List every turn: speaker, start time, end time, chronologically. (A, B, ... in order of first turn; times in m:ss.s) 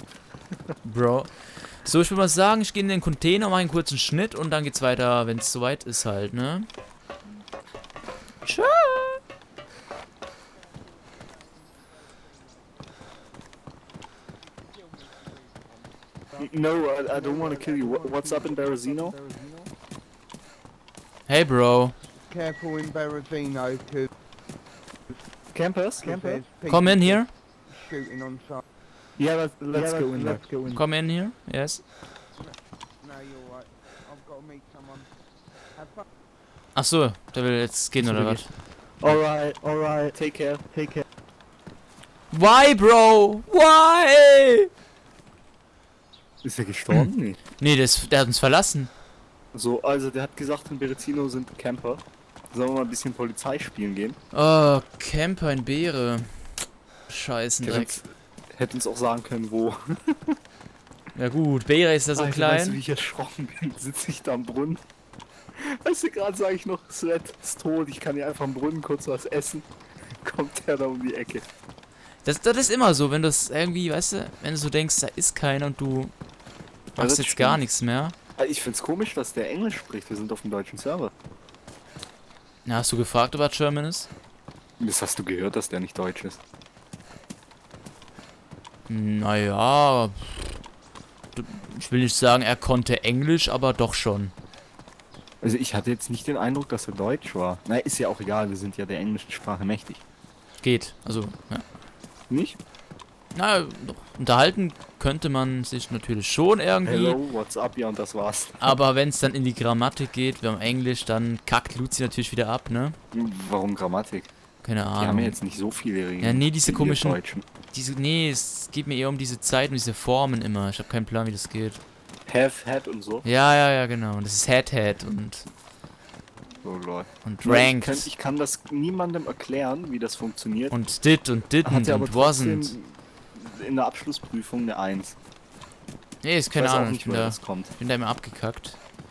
0:00.8-0:06.7 A
0:08.4-0:09.2 A
0:11.4-0:12.4 B
0:14.7-0:15.5 B
0:16.4-0:19.2 C
0:19.2-0:19.7 B
0:21.3-0:22.0 A
0:22.3-0:24.1 B
0:25.5-0:26.5 C
0:26.6-0:27.3 A
0:27.9-0:28.6 B
0:29.2-0:30.8 C
0:30.7-0:31.8 A
0:33.0-0:35.1 B
0:36.8-0:38.5 A
0:38.0-0:38.5 C
0:39.0-0:41.0 C
0:42.3-0:44.7 A
0:46.4-0:47.4 C
0:47.6-0:48.9 A
0:49.5-0:54.2 C
0:54.3-0:56.4 A
0:57.1-0:58.0 A
0:57.6-1:00.4 C
1:01.1-1:02.8 A
1:02.2-1:04.8 C
1:05.6-1:09.7 C
1:10.2-1:11.4 C
1:12.2-1:16.1 A
1:17.0-1:18.2 A
1:17.0-1:17.6 C
1:18.4-1:21.1 C
1:22.6-1:24.1 A
1:24.8-1:26.4 C
1:28.9-1:30.6 A
1:31.4-1:34.3 A
1:35.4-1:40.0 C
1:40.6-1:41.6 A
1:42.3-1:42.6 C
1:43.4-1:47.2 A
1:46.8-1:48.8 C
1:48.6-1:53.0 A
1:53.1-1:54.3 C
1:54.6-1:55.4 A
1:55.0-1:57.4 C
1:56.2-1:57.2 A
1:57.7-2:01.8 A
2:02.3-2:03.2 C
2:03.2-2:05.5 A
2:06.6-2:10.7 C
2:07.2-2:08.1 A
2:10.7-2:12.8 A
2:11.6-2:15.2 C
2:16.2-2:18.8 A
2:16.6-2:17.7 C